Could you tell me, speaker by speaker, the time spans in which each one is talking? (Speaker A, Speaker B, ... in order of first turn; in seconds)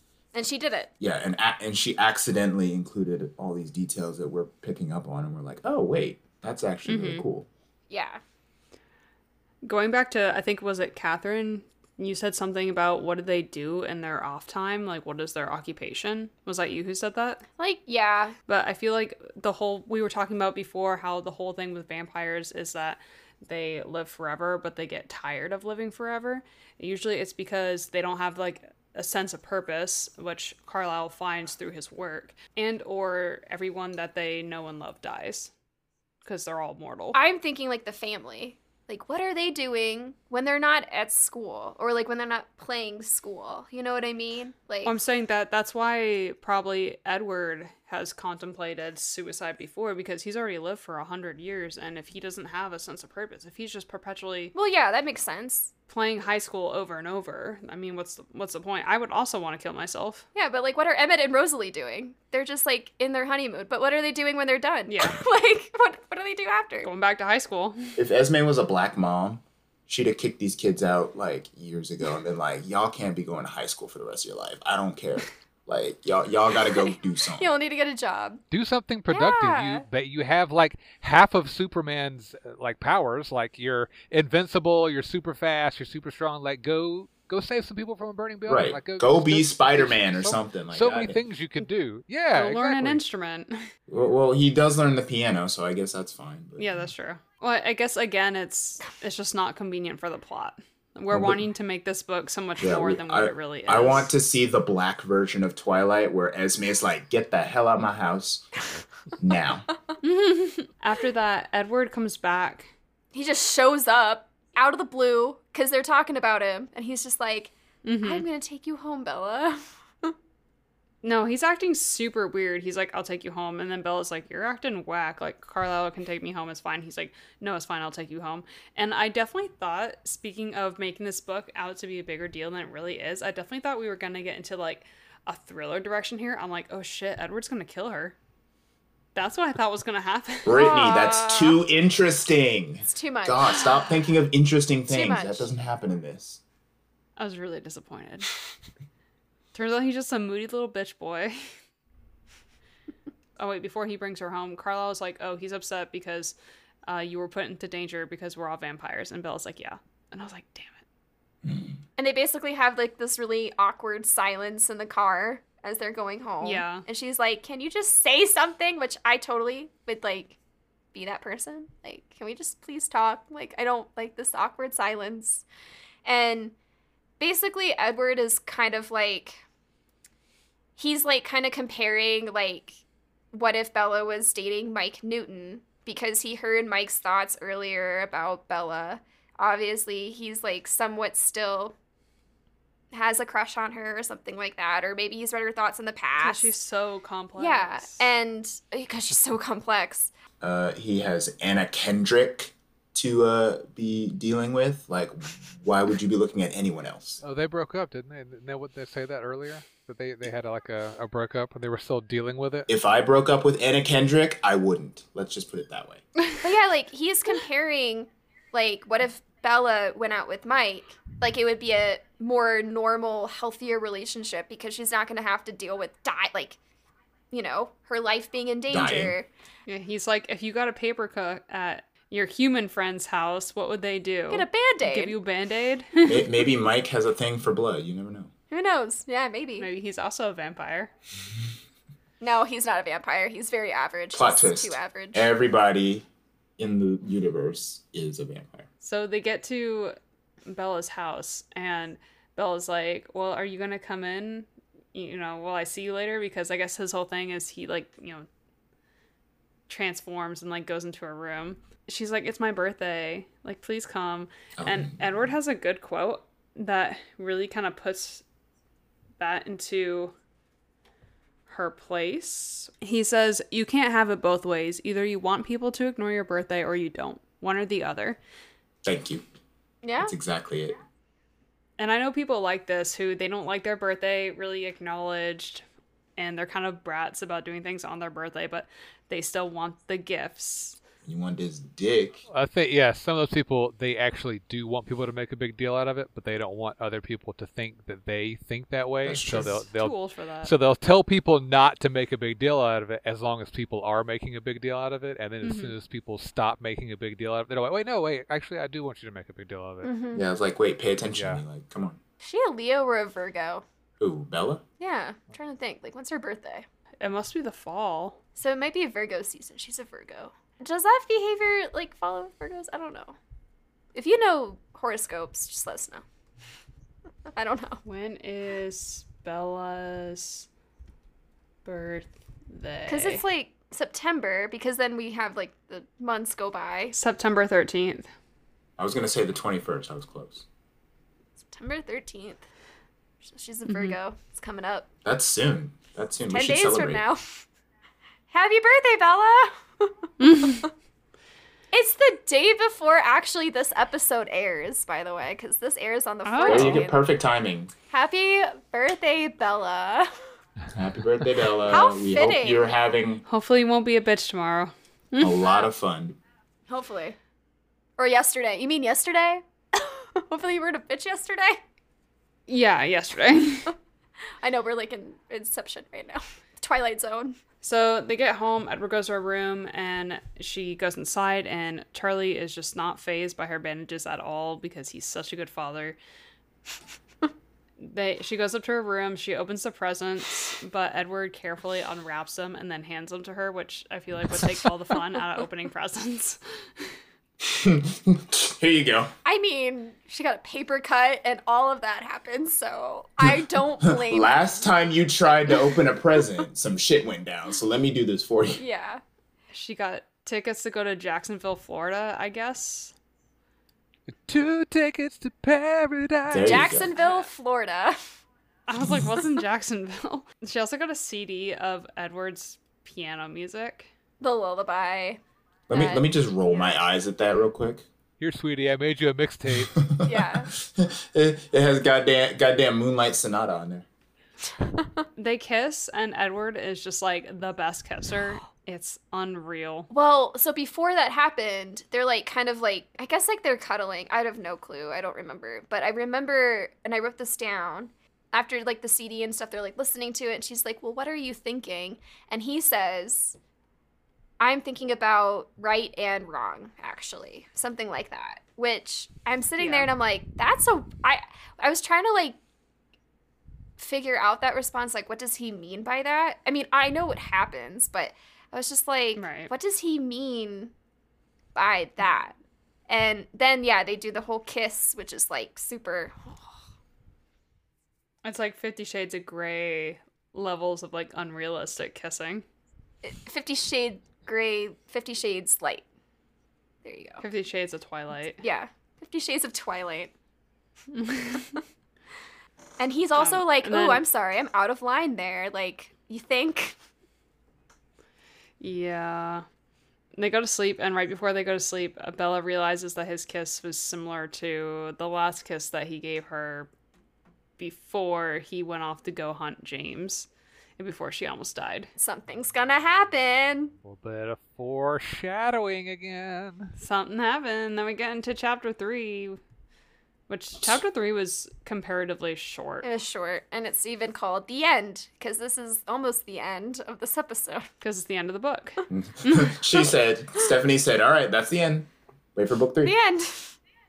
Speaker A: 0.3-0.9, 7.9-8.2, 17.6-18.4, 37.1-44.9, 54.5-55.7, 60.3-66.9, 76.8-78.4, 79.1-79.8, 113.1-120.1, 140.5-141.6, 142.9-144.0, 144.9-145.5, 162.0-170.4, 170.9-175.4, 176.0-176.5, 177.2-179.4, 180.8-182.8, 183.3-191.7, 192.9-196.5, 197.4-200.1, 216.4-226.6, 227.3-229.3, 234.3-235.2, 238.5-239.7, 242.2-245.3, 279.8-280.1, 309.8-310.2, 312.2-313.6, 314.8-316.6, 318.4-323.1, 323.9-326.0, 327.3-327.8, 332.9-336.9, 341.5-342.4, 343.2-344.9, 346.3-347.2, 348.3-350.6, 351.7-357.0, 357.9-360.2, 361.6-362.6, 366.7-367.1, 368.0-371.6, 374.4-377.4, 399.2-404.4, 408.6-409.0, 416.4-418.1, 424.2-425.2, 425.7-426.6, 430.0-430.5, 434.6-435.0, 439.9-453.4, 454.4-462.4, 463.8-470.7, 471.5-472.4, 472.9-476.6, 483.0-485.8, 486.8-487.2, 488.4-490.1, 492.8-496.7, 512.0-513.7, 522.8-527.7, 532.8-533.5
Speaker B: 1.0-7.5, 68.0-77.5, 88.5-91.2, 93.9-96.9, 101.1-101.4, 102.6-108.5, 109.2-109.7, 140.4-146.4, 161.4-161.8, 200.4-207.2, 212.7-216.0, 228.7-229.1, 236.0-238.3, 244.1-246.1, 246.6-248.7, 264.6-265.1, 278.8-279.2, 280.0-280.8, 291.0-292.2, 299.0-299.6, 310.1-312.0, 314.0-314.6, 338.8-340.4, 345.0-347.0, 356.4-357.7, 360.7-363.2, 365.2-366.2, 397.4-399.1, 403.8-408.6, 416.3-416.9, 425.7-427.8, 429.6-433.9, 528.9-532.9
Speaker C: 6.9-7.2, 9.6-17.4, 18.5-35.5, 36.2-37.2, 44.8-54.5, 55.9-60.2, 64.9-65.2, 66.8-68.0, 92.3-93.7, 96.6-104.1, 110.0-112.7, 117.8-118.2, 121.0-138.2, 139.1-140.7, 147.2-148.3, 149.5-151.4, 153.4-160.8, 166.4-166.8, 196.2-198.1, 229.7-236.4, 239.6-240.9, 248.8-258.3, 259.7-268.2, 269.2-270.1, 271.5-278.2, 281.8-285.6, 286.2-290.8, 299.7-300.5, 305.4-305.7, 317.0-318.2, 327.8-330.5, 331.6-333.2, 336.9-338.1, 343.7-343.9, 350.2-350.7, 356.2-356.8, 363.2-365.4, 372.5-373.7, 377.6-386.0, 387.8-396.9, 409.5-412.9, 416.9-417.3, 418.7-423.9, 435.2-439.9, 459.6-459.9, 469.1-469.5, 478.2-482.4, 487.2-488.4, 490.9-491.6, 493.2-494.0, 498.6-499.4, 500.1-506.7, 507.6-511.9, 516.8-519.4, 520.3-522.9, 527.8-529.5
Speaker D: 78.5-93.0, 207.2-212.7, 292.3-309.9, 311.1-311.4, 414.1-416.8, 428.2-429.8, 513.8-516.7